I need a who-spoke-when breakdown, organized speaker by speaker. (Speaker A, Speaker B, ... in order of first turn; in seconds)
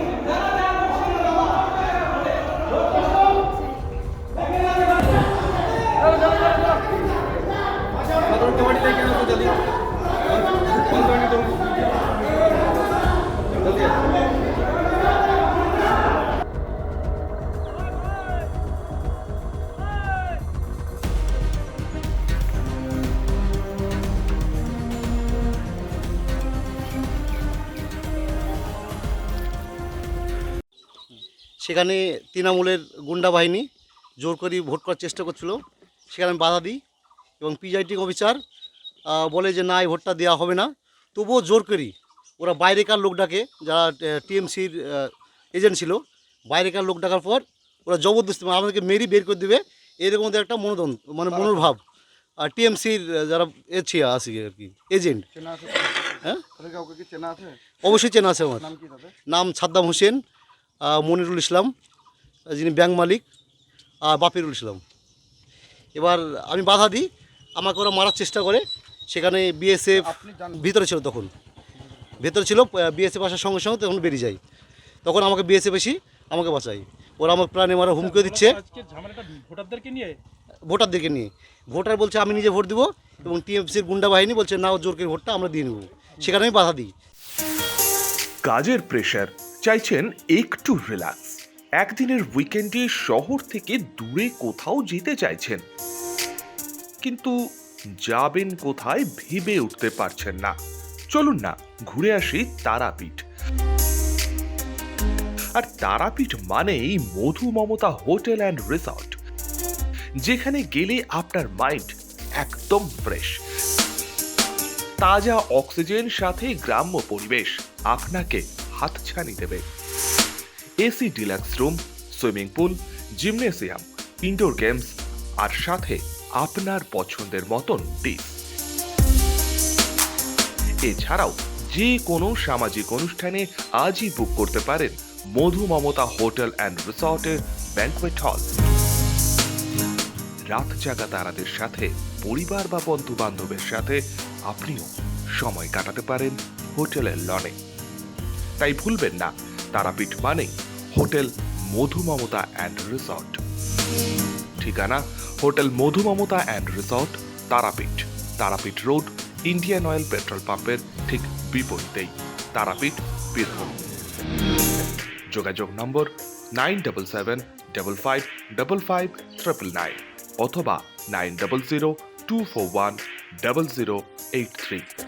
Speaker A: 8.3-9.5, 10.9-11.4, 56.6-57.6, 58.8-59.1, 78.9-80.2
Speaker B: 31.6-33.7, 34.2-35.6, 36.1-36.8, 37.4-38.4, 39.1-51.8, 52.4-55.3, 57.8-60.2, 60.8-61.7, 62.5-63.2, 64.0-64.8, 66.0-71.3, 72.2-74.4, 75.0-78.6, 80.7-86.9
Speaker C: 88.4-95.6, 97.0-97.4, 98.0-100.5, 101.1-103.2, 105.6-109.2, 110.2-113.4, 115.0-119.7, 120.8-128.4, 130.8-138.5, 140.5-147.6, 148.6-153.4, 154.6-163.8, 165.3-174.9